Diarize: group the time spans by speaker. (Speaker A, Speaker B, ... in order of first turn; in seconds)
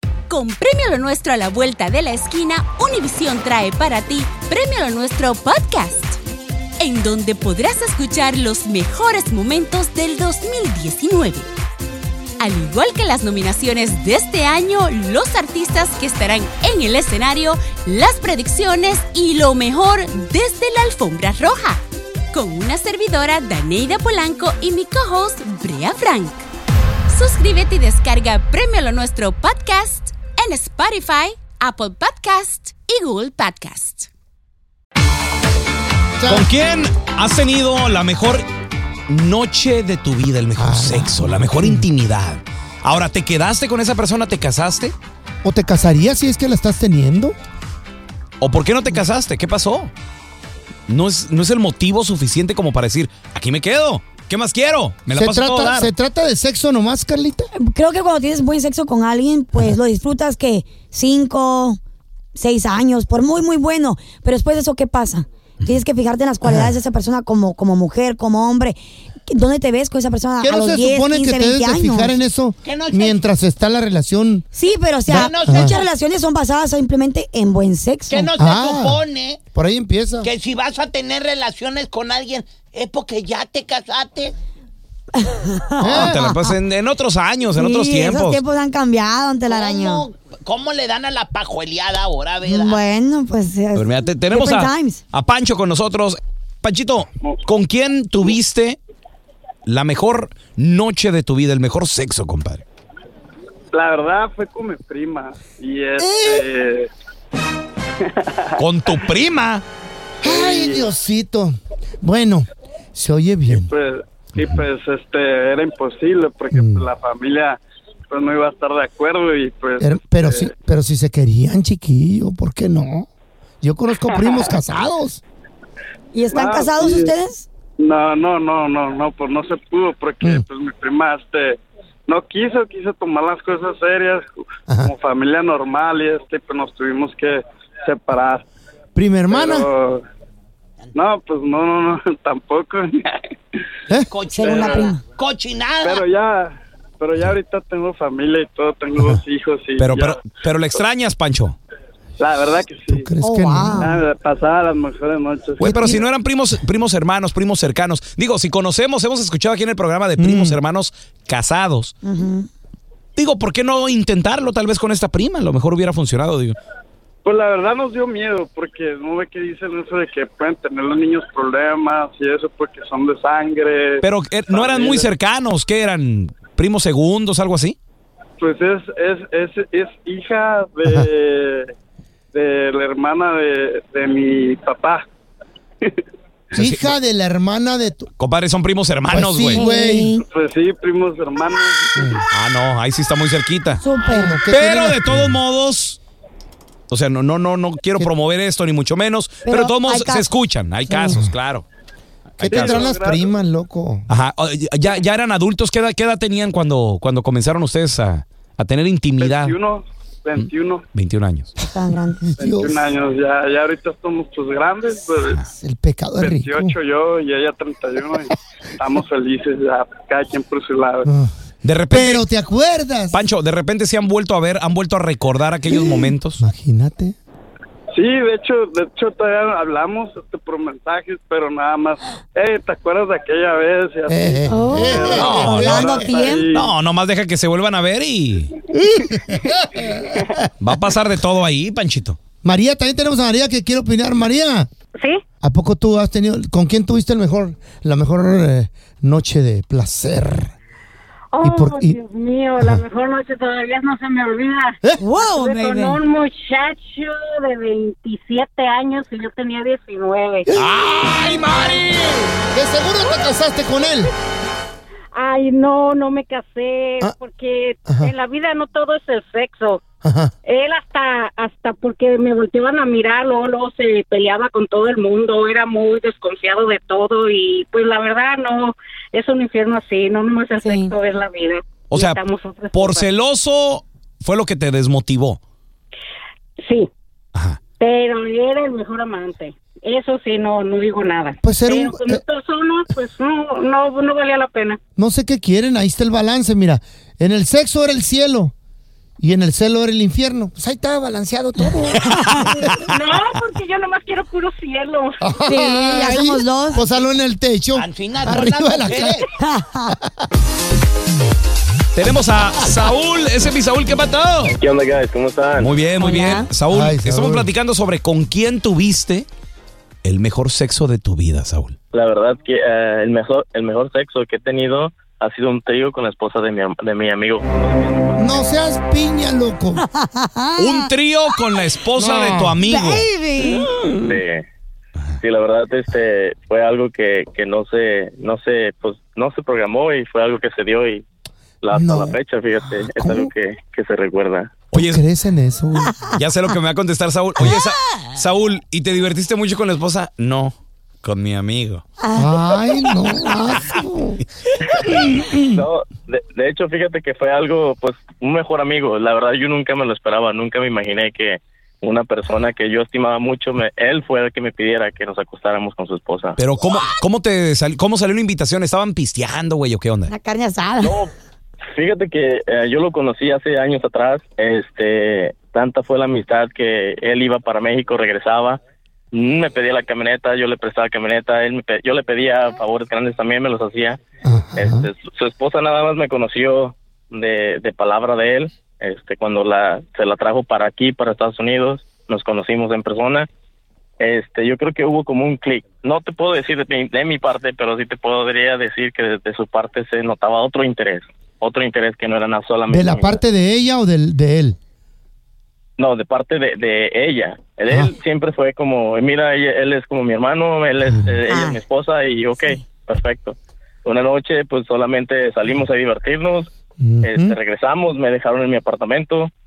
Speaker A: 0.3-6.2, 6.8-11.4, 12.4-21.8, 22.3-26.4, 27.1-34.1
Speaker B: 36.2-36.5, 40.5-41.9, 45.4-47.4, 55.1-57.5, 66.4-66.8, 70.4-74.4, 75.1-75.8, 78.3-80.3, 85.8-86.2, 106.0-106.5, 110.2-113.7, 116.5-116.9, 119.8-123.1, 123.6-125.2, 138.9-139.7, 152.9-154.0, 155.6-156.0, 160.2-160.6, 186.5-188.1, 189.1-190.1, 191.9-192.2, 194.1-195.4, 202.4-204.1, 212.2-212.8, 215.5-216.8, 221.1-221.3, 221.9-223.2, 225.7-227.2, 234.1-236.1, 238.8-240.4, 242.4-244.7, 245.4-250.5, 251.4-252.0, 260.5-264.1, 267.9-268.1, 270.0-270.3, 291.4-292.2, 295.0-298.5, 299.2-302.1, 305.2-309.3, 316.7-317.5, 328.2-329.8, 332.0-332.6, 333.7-334.2, 341.7-342.2, 342.9-343.3, 344.7-345.9, 352.1-354.2, 354.9-355.6, 384.2-384.9, 402.7-404.6, 407.7-407.9, 410.8-411.1, 416.8-417.4
Speaker C: 36.3-38.4, 39.1-44.9, 48.4-49.9, 50.9-55.9, 85.8-88.4, 93.7-98.8, 99.7-102.6, 108.6-109.6, 149.8-151.6, 155.6-161.9, 163.2-166.6, 174.0-177.8, 186.5-187.0, 188.2-189.6, 192.3-193.8, 194.4-196.0, 196.9-201.6, 202.3-202.9, 204.1-209.6, 210.3-211.5, 221.6-222.3, 223.1-226.4, 235.0-235.6, 236.5-238.6, 240.6-242.2, 281.9-282.2, 282.7-285.4, 287.3-287.6, 302.3-302.8, 311.9-314.5, 315.6-319.3, 320.0-321.8, 330.6-333.1, 344.7-345.0, 346.1-351.8, 366.4-370.1
Speaker D: 57.5-61.8, 62.3-72.2, 74.5-78.3, 85.2-86.5, 87.5-90.0, 92.4-95.0, 126.1-127.5, 144.3-145.0, 153.2-154.0, 162.0-162.5, 189.5-190.2, 193.8-194.4, 199.4-200.3, 200.9-201.2, 211.6-212.2, 234.4-236.5, 255.0-256.0, 280.6-280.9, 305.4-306.8, 309.4-309.9, 316.0-316.5, 329.9-331.5, 332.7-333.7, 352.0-353.3, 370.1-371.0, 411.2-411.6
Speaker E: 72.6-73.2, 75.1-75.8, 78.1-79.4, 80.2-84.3, 89.5-92.9, 144.1-146.0, 307.7-309.3
Speaker F: 103.7-106.9, 110.3-110.8, 113.6-117.6, 118.1-120.5, 126.3-127.1, 127.8-134.2, 134.8-138.4, 139.4-140.0, 140.9-142.9, 145.9-150.1, 152.2-153.1, 153.8-155.6, 167.2-174.0, 174.5-175.0, 178.4-181.7, 182.3-185.0, 190.3-191.9, 202.6-203.2, 209.2-210.8, 212.4-215.3, 216.3-221.1, 227.9-234.2, 234.9-236.7
Speaker G: 245.0-245.2, 251.3-260.5, 265.1-269.8, 270.4-283.1, 286.6-286.9, 287.8-294.8, 302.8-305.5
Speaker H: 314.5-315.7, 321.9-328.4, 333.4-334.4, 335.2-341.0, 341.6-344.5, 355.5-366.4, 370.8-371.1, 371.7-378.6, 379.1-384.0, 384.6-393.3, 394.0-403.2, 405.8-416.5, 417.0-419.3